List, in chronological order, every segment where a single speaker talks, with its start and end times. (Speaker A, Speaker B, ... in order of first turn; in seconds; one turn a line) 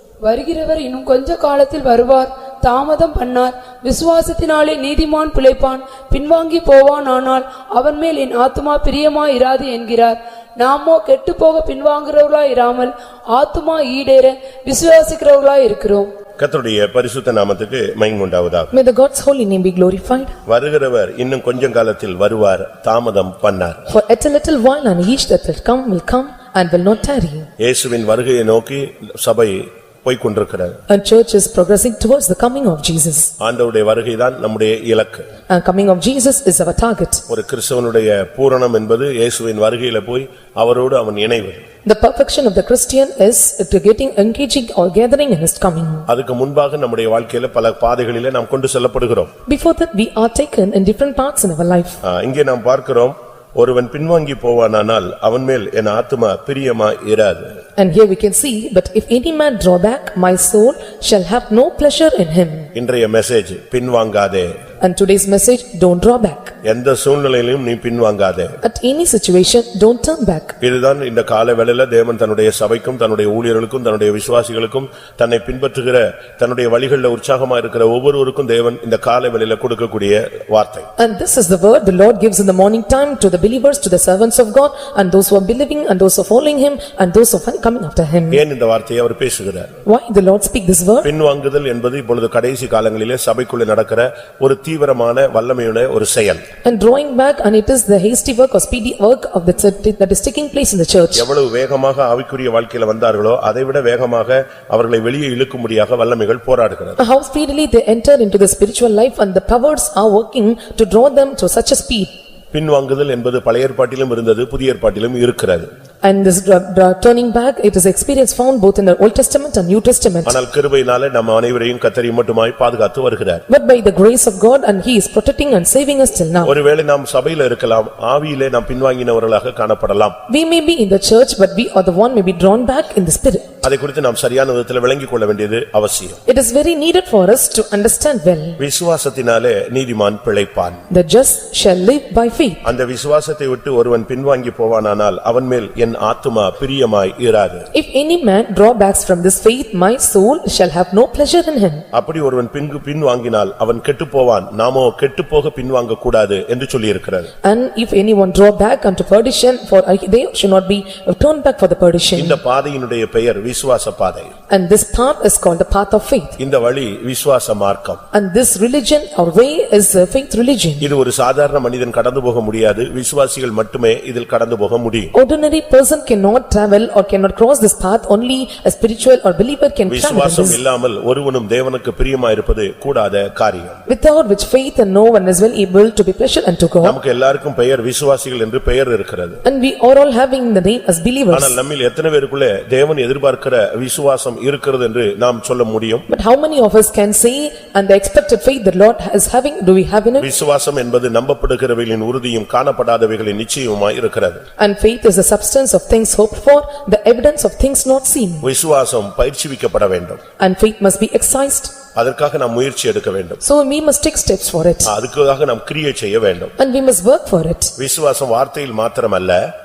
Speaker A: 0.2-16.1
Speaker B: 16.4-18.7
Speaker C: 18.7-20.3
Speaker B: 20.4-23.8
Speaker C: 23.9-27.5
Speaker B: 27.6-30.8
Speaker C: 30.9-33.3
Speaker B: 33.4-35.3
Speaker C: 35.5-37.2
Speaker B: 37.3-41.6
Speaker C: 41.8-46.1
Speaker B: 46.1-49.3
Speaker C: 49.5-52.0
Speaker B: 52.0-57.6
Speaker C: 57.8-62.7
Speaker B: 62.7-64.6
Speaker C: 64.8-66.5
Speaker B: 66.6-68.6
Speaker C: 68.6-70.5
Speaker B: 70.6-80.9
Speaker C: 81.0-88.4
Speaker B: 88.3-89.7
Speaker C: 89.8-91.1
Speaker B: 91.0-96.4
Speaker C: 96.6-101.3
Speaker B: 101.1-107.0
Speaker C: 107.0-112.1
Speaker B: 112.5-115.7
Speaker C: 116.0-120.4
Speaker B: 120.2-123.4
Speaker C: 123.5-126.5
Speaker B: 126.4-130.2
Speaker C: 130.3-133.5
Speaker B: 133.6-136.2
Speaker C: 136.2-138.6
Speaker B: 138.6-140.8
Speaker C: 140.9-142.6
Speaker B: 142.6-147.7
Speaker C: 147.7-151.8
Speaker B: 151.9-157.3
Speaker C: 157.4-162.4
Speaker B: 162.2-164.3
Speaker C: 164.5-166.4
Speaker B: 166.4-168.0
Speaker C: 168.1-170.9
Speaker B: 170.8-175.1
Speaker C: 175.1-180.6
Speaker B: 179.9-183.8
Speaker C: 183.9-187.0
Speaker B: 186.8-189.4
Speaker C: 189.4-191.6
Speaker B: 191.3-196.1
Speaker C: 196.1-200.3
Speaker B: 200.2-204.4
Speaker C: 204.6-208.5
Speaker B: 208.4-210.2
Speaker C: 210.4-211.7
Speaker B: 211.9-213.4
Speaker C: 213.4-214.9
Speaker B: 214.8-216.5
Speaker C: 216.6-217.7
Speaker B: 217.8-219.5